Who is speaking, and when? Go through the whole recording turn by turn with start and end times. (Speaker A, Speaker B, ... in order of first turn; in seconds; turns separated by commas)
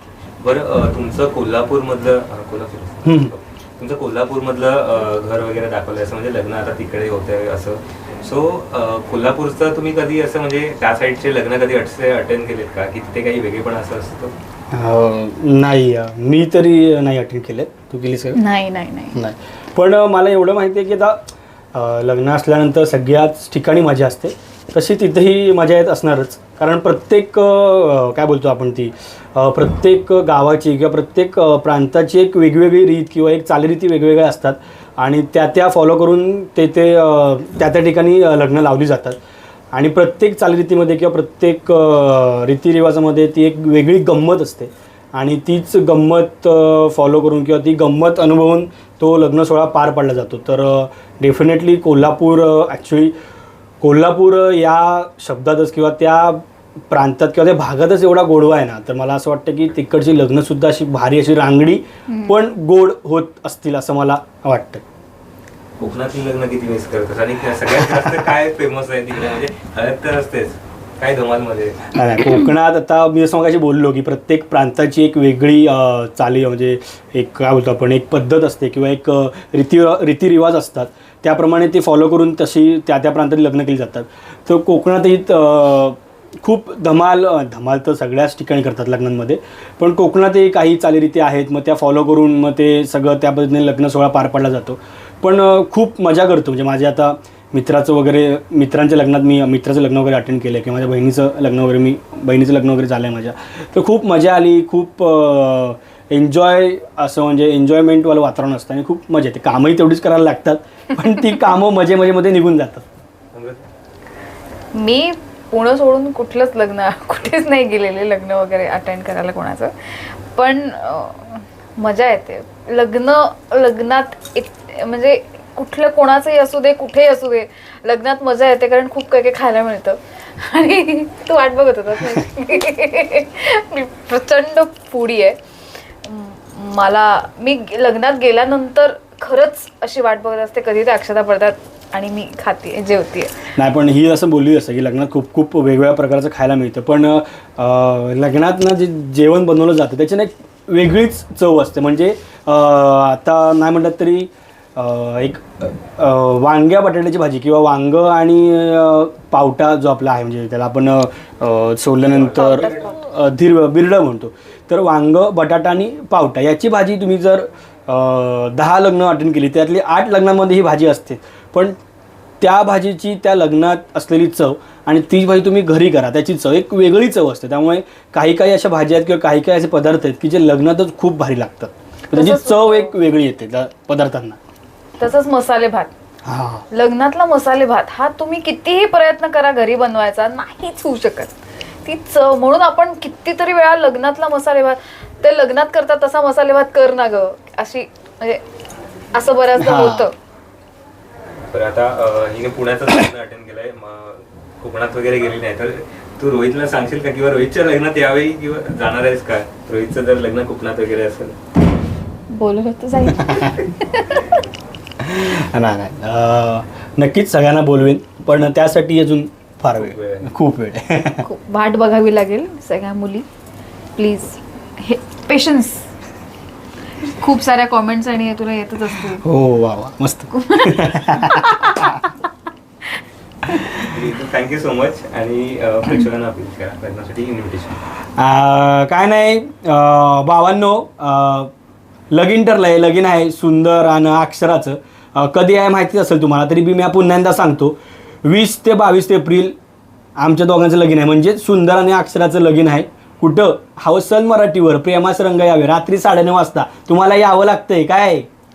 Speaker A: 0.4-14.3, Speaker B: 3.0-3.3, Speaker B: 14.7-18.4, Speaker C: 18.3-19.2, Speaker B: 19.1-21.2, Speaker B: 21.7-39.2, Speaker B: 39.7-53.1, Speaker B: 53.8-64.8, Speaker C: 62.1-62.3, Speaker A: 65.8-71.9, Speaker B: 67.8-68.2, Speaker B: 71.9-112.8, Speaker A: 113.3-113.7, Speaker C: 114.7-135.4, Speaker C: 136.0-143.5, Speaker B: 143.6-171.8, Speaker A: 162.1-162.9, Speaker C: 162.4-162.9, Speaker B: 172.4-184.4, Speaker C: 182.1-182.9, Speaker C: 185.0-185.9, Speaker B: 186.2-186.6, Speaker C: 186.7-198.4, Speaker C: 199.1-200.1, Speaker B: 199.6-200.1, Speaker A: 201.5-211.4, Speaker C: 212.3-214.4, Speaker B: 213.1-213.5, Speaker B: 215.0-221.2, Speaker A: 219.7-220.3, Speaker C: 221.2-223.2, Speaker C: 223.9-225.9, Speaker C: 227.0-229.2, Speaker B: 229.2-232.0, Speaker C: 230.3-232.1, Speaker B: 233.5-233.9, Speaker A: 233.8-237.8, Speaker B: 238.2-241.5, Speaker B: 242.1-249.5, Speaker B: 250.2-258.3